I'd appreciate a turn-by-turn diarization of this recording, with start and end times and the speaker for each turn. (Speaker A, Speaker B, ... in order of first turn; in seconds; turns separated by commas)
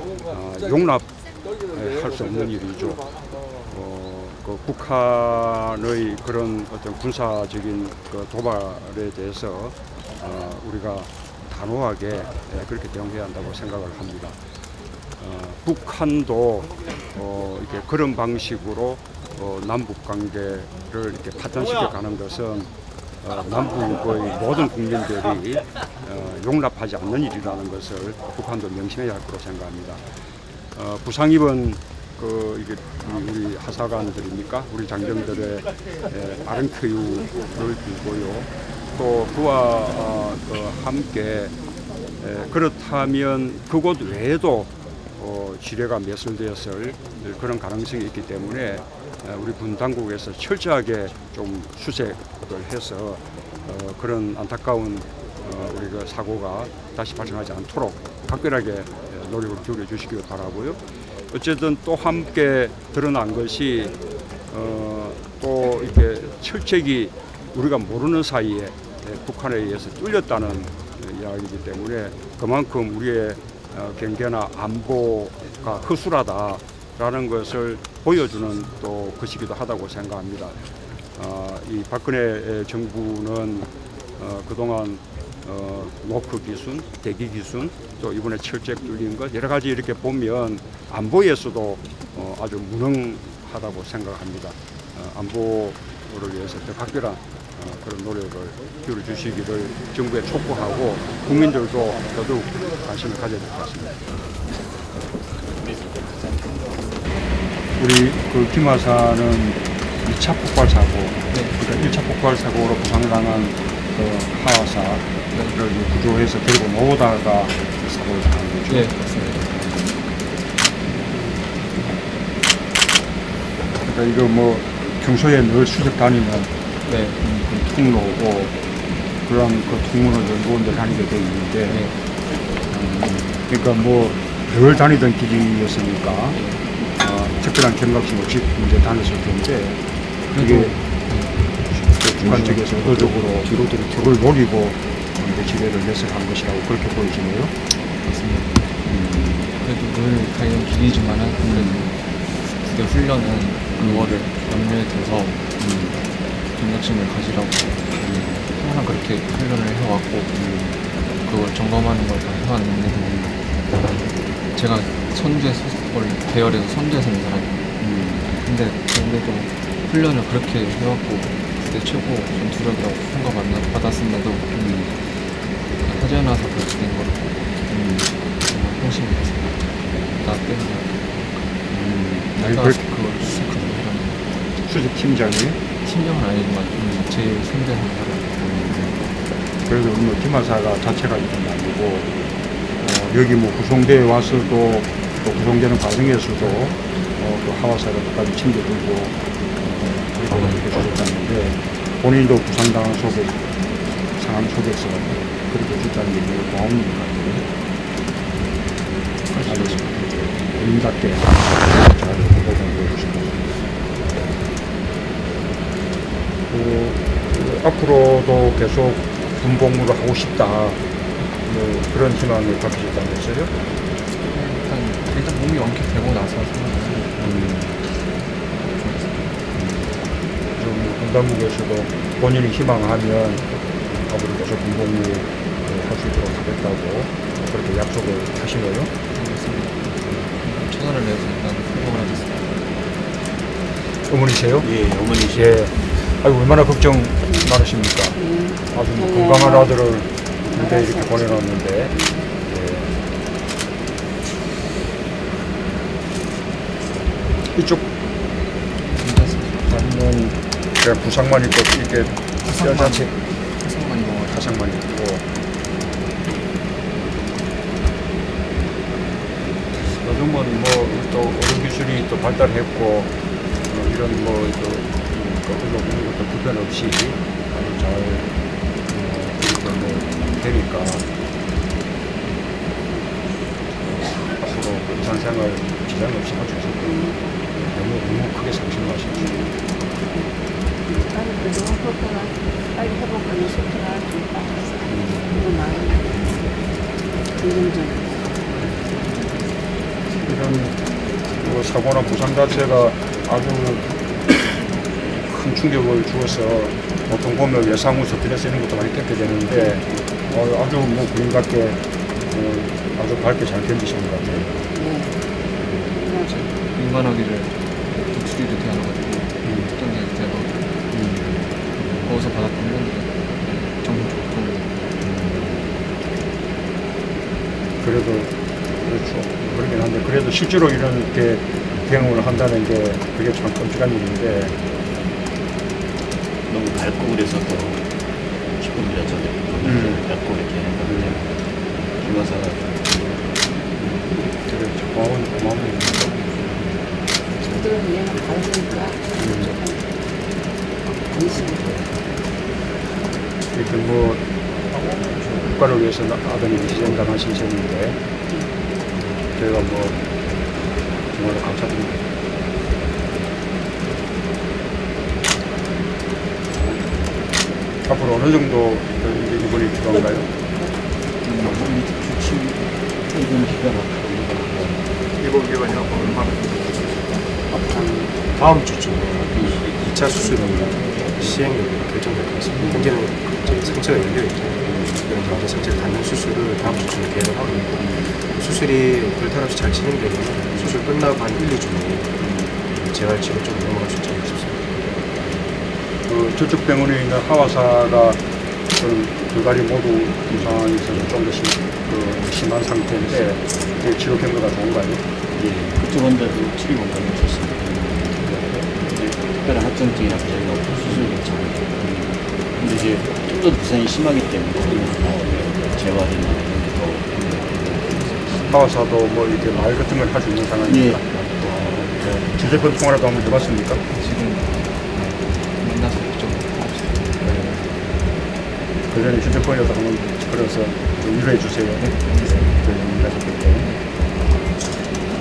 Speaker A: 0.3-1.1, Speaker A: 1.7-3.0, Speaker A: 3.7-14.4, Speaker A: 15.2-22.7, Speaker A: 23.2-30.0, Speaker A: 30.8-41.5, Speaker A: 42.2-60.8, Speaker A: 61.3-63.9, Speaker A: 64.5-80.6, Speaker A: 81.2-104.0, Speaker B: 105.6-106.4, Speaker A: 107.8-118.9, Speaker C: 111.3-111.6, Speaker C: 118.7-119.6, Speaker A: 119.5-119.8, Speaker C: 120.9-121.9, Speaker A: 123.8-126.5, Speaker C: 126.8-127.5, Speaker A: 127.3-128.5, Speaker A: 129.3-131.8, Speaker C: 131.7-131.9, Speaker A: 132.7-136.4, Speaker C: 136.3-136.7, Speaker A: 136.9-139.8, Speaker C: 140.3-141.5, Speaker A: 140.3-140.7, Speaker A: 141.7-147.5, Speaker C: 148.0-148.7, Speaker A: 148.9-149.5, Speaker C: 149.6-155.4, Speaker A: 151.4-151.9, Speaker A: 153.8-154.2, Speaker A: 155.6-156.0, Speaker C: 156.5-158.0, Speaker A: 158.0-158.4, Speaker C: 158.5-160.3, Speaker A: 160.3-160.8, Speaker C: 161.2-167.7, Speaker A: 167.8-168.2, Speaker C: 168.3-181.6, Speaker A: 181.7-182.8, Speaker C: 182.3-184.3, Speaker A: 184.6-185.6, Speaker C: 185.8-188.3, Speaker A: 188.4-189.0, Speaker A: 189.7-192.1, Speaker A: 192.8-203.4, Speaker A: 204.2-207.4, Speaker C: 209.3-210.1, Speaker A: 209.4-209.9, Speaker A: 210.5-213.5, Speaker A: 216.5-220.8, Speaker A: 221.4-223.5, Speaker C: 224.2-228.0, Speaker A: 227.2-227.8, Speaker C: 228.7-229.2, Speaker A: 229.6-229.9, Speaker A: 230.6-238.9, Speaker C: 239.1-242.4, Speaker A: 244.1-244.7, Speaker B: 244.6-245.5, Speaker A: 245.3-248.2, Speaker D: 248.2-248.5, Speaker A: 248.7-253.0, Speaker D: 252.0-252.3, Speaker A: 257.5-257.9, Speaker C: 258.8-260.0, Speaker A: 259.7-263.1, Speaker C: 262.4-264.6, Speaker A: 264.3-265.2, Speaker A: 269.8-273.1, Speaker A: 273.7-278.3, Speaker A: 278.9-281.1, Speaker A: 283.9-287.0, Speaker A: 287.7-289.5, Speaker D: 290.9-294.7, Speaker A: 294.9-295.5, Speaker D: 295.3-296.1, Speaker A: 296.1-296.4, Speaker D: 297.4-298.0, Speaker A: 300.2-300.8, Speaker A: 301.4-303.9, Speaker A: 305.2-314.5, Speaker D: 314.8-315.1, Speaker C: 316.2-320.6, Speaker A: 319.4-319.7, Speaker A: 320.9-321.4, Speaker C: 322.0-324.9, Speaker A: 325.0-325.5, Speaker A: 327.8-334.6, Speaker B: 336.5-337.8, Speaker B: 338.6-341.3, Speaker A: 339.6-340.0, Speaker A: 340.9-341.2, Speaker B: 341.9-342.8, Speaker A: 343.8-346.8, Speaker D: 347.5-349.8, Speaker A: 349.2-349.6, Speaker D: 351.1-351.8, Speaker A: 353.5-354.2, Speaker A: 355.2-358.0, Speaker A: 359.3-360.0, Speaker A: 361.1-362.0, Speaker A: 367.9-370.3, Speaker B: 371.2-374.9, Speaker B: 375.9-376.3, Speaker E: 377.7-392.1, Speaker B: 379.3-381.4, Speaker E: 392.7-394.6, Speaker B: 395.2-395.5, Speaker A: 396.1-398.2, Speaker A: 398.8-405.0, Speaker B: 400.3-401.1, Speaker B: 405.3-418.2, Speaker A: 418.5-421.1, Speaker B: 420.6-422.5, Speaker A: 422.3-423.8, Speaker C: 423.9-424.9, Speaker C: 425.6-427.2, Speaker A: 427.2-427.7, Speaker A: 428.9-433.7, Speaker C: 431.8-432.5